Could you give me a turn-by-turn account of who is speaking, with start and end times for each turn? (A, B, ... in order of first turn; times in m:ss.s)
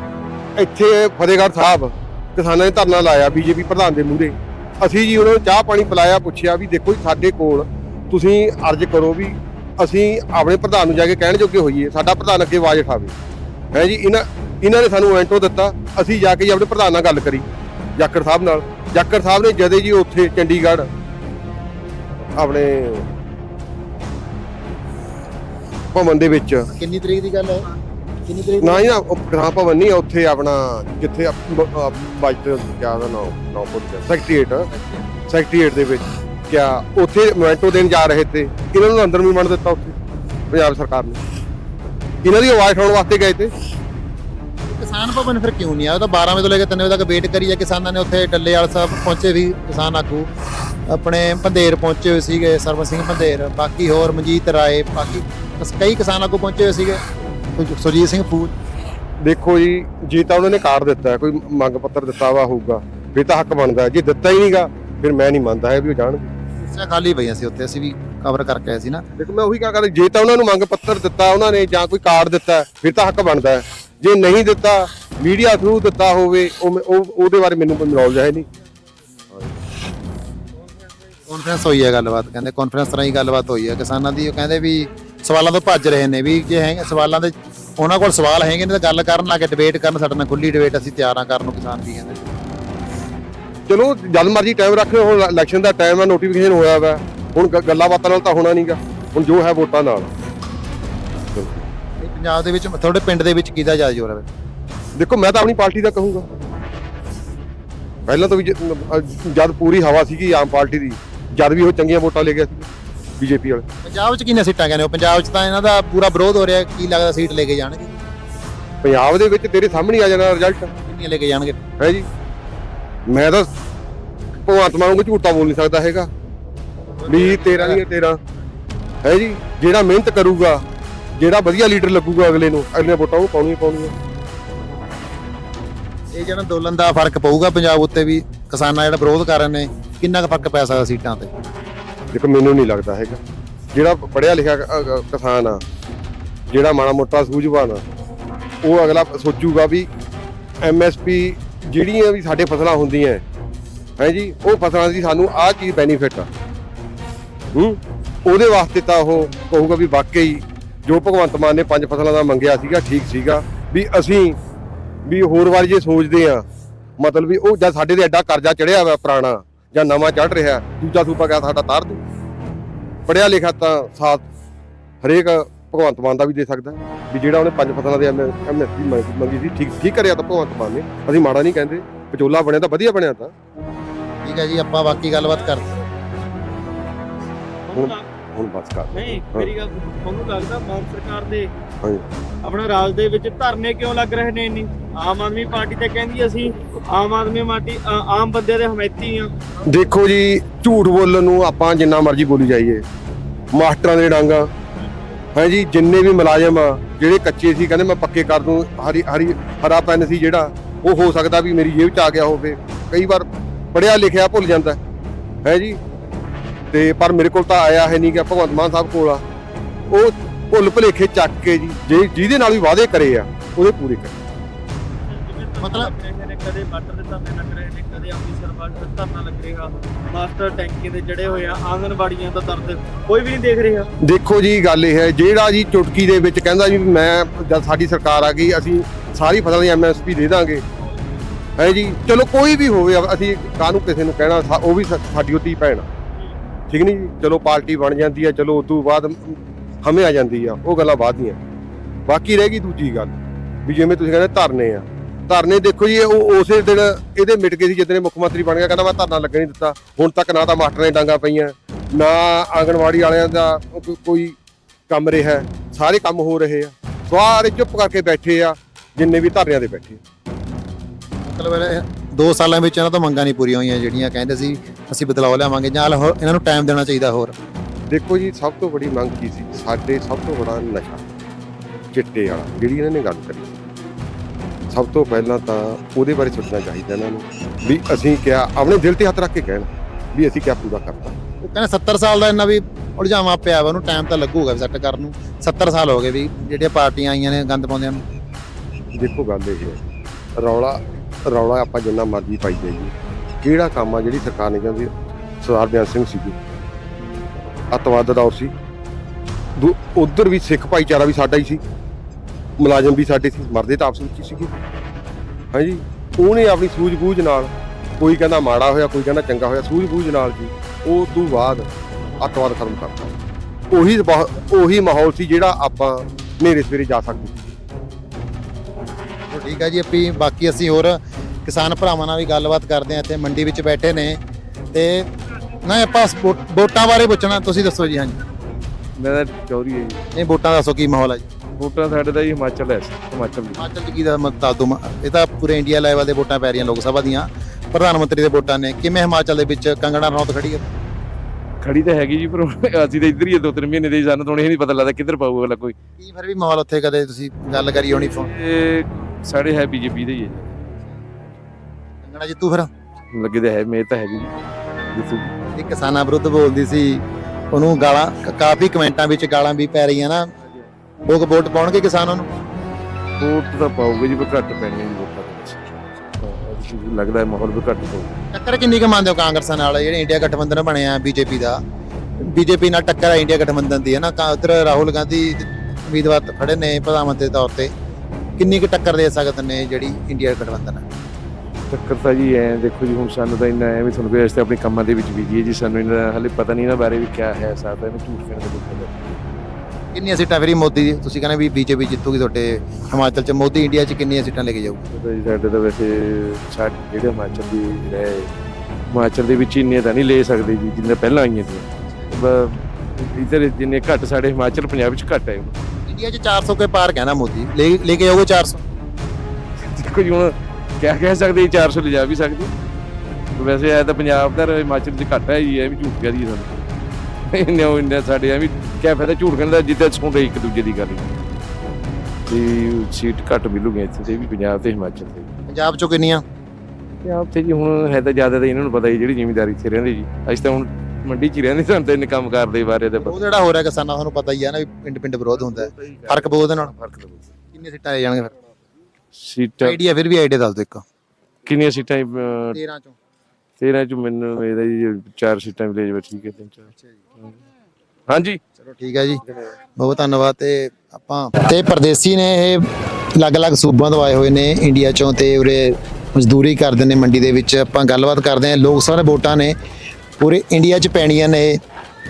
0:00.6-0:13.2 A
0:13.7-0:17.4 A
0:18.0-0:20.9 A
0:22.4-0:23.1 A
0:25.9-0:26.7 A
0:26.7-0:27.7 B
0:28.3-0:28.9 B
0:28.6-0:34.7 A
0:34.7-0:35.0 B
0:35.3-0:40.0 A
0:40.5-0:41.2 A
0:42.2-0:43.5 A
0:44.6-0:50.3 B
0:50.9-0:57.0 B
0:57.6-0:58.6 B
0:59.2-1:06.3 A
1:06.6-1:09.0 B
1:09.2-1:18.5 A
1:21.3-1:32.4 B
1:33.7-1:40.1 A
1:41.3-1:41.6 A
1:42.0-1:44.3 B
1:45.0-1:46.3 A
1:48.1-1:53.6 A
1:53.8-1:57.9 B
1:58.8-2:00.7 A
2:00.8-2:01.6 B
2:01.8-2:02.1 A
2:03.1-2:03.5 A
2:04.4-2:06.1 A
2:07.0-2:07.8 B
2:07.1-2:08.2 A
2:09.0-2:10.6 A
2:11.2-2:13.9 A
2:16.1-2:21.3 B
2:22.1-2:23.2 A
2:23.7-2:25.6 A
2:26.5-2:27.8 A
2:28.6-2:29.9 A
2:30.6-2:33.2 A
2:34.0-2:36.3 A
2:37.6-2:44.4 A
2:45.1-2:46.4 A
2:47.0-2:52.0 A
2:53.1-2:54.2 A
2:55.0-3:03.3 A
3:04.2-3:05.7 B
3:05.1-3:05.6 C
3:07.7-3:08.1 C
3:07.7-3:09.5 A
3:08.9-3:11.5 C
3:12.4-3:19.3 C
3:19.7-3:22.8 A
3:23.5-3:24.5 A
3:25.4-3:34.8 A
3:35.4-3:35.8 A
3:36.7-3:39.2 A
3:39.9-3:44.2 A
3:45.1-3:53.9 C
3:45.6-3:45.9 B
3:54.0-4:00.6 A
4:01.6-4:05.9 A
4:06.7-4:11.4 A
4:12.1-4:24.4 A
4:24.9-4:30.0 A
4:31.2-4:37.3 B
4:37.9-4:41.0 A
4:41.9-4:43.7 A
4:44.7-4:51.2 A
4:51.4-4:58.0 B
4:58.9-4:59.8 A
5:00.4-5:06.4 A
5:07.7-5:08.5 A
5:09.6-5:11.6 A
5:12.6-5:14.5 A
5:15.5-5:21.7 A
5:22.2-5:23.1 A
5:23.7-5:27.5 A
5:29.3-5:34.2 B
5:34.7-5:35.1 B
5:35.6-5:38.2 B
5:39.0-5:40.0 D
5:40.1-5:41.3 B
5:41.6-5:43.6 D
5:43.5-5:50.6 B
5:51.6-5:55.8 D
5:56.0-5:58.3 B
5:57.6-6:00.7 D
6:02.0-6:02.7 B
6:03.1-6:04.3 D
6:04.9-6:05.4 D
6:05.6-6:10.3 B
6:11.1-6:12.3 B
6:13.2-6:18.2 D
6:18.3-6:21.6 B
6:22.2-6:27.7 B
6:28.4-6:30.8 B
6:31.7-6:39.2 D
6:39.9-6:44.8 B
6:44.9-6:48.3 D
6:48.9-6:55.5 D
6:55.9-6:58.6 B
6:59.6-7:02.5 D
7:03.4-7:06.6 D
7:07.3-7:11.2 D
7:12.3-7:15.3 D
7:15.5-7:16.2 B
7:17.0-7:23.2 D
7:23.0-7:26.7 B
7:25.4-7:27.2 D
7:27.5-7:28.3 B
7:29.2-7:29.8 D
7:29.6-7:30.8 B
7:31.5-7:32.6 D
7:32.5-7:33.0 B
7:33.6-7:36.7 D
7:38.1-7:38.4 D
7:38.6-7:39.2 B
7:39.8-7:49.6 B
7:50.2-7:51.6 B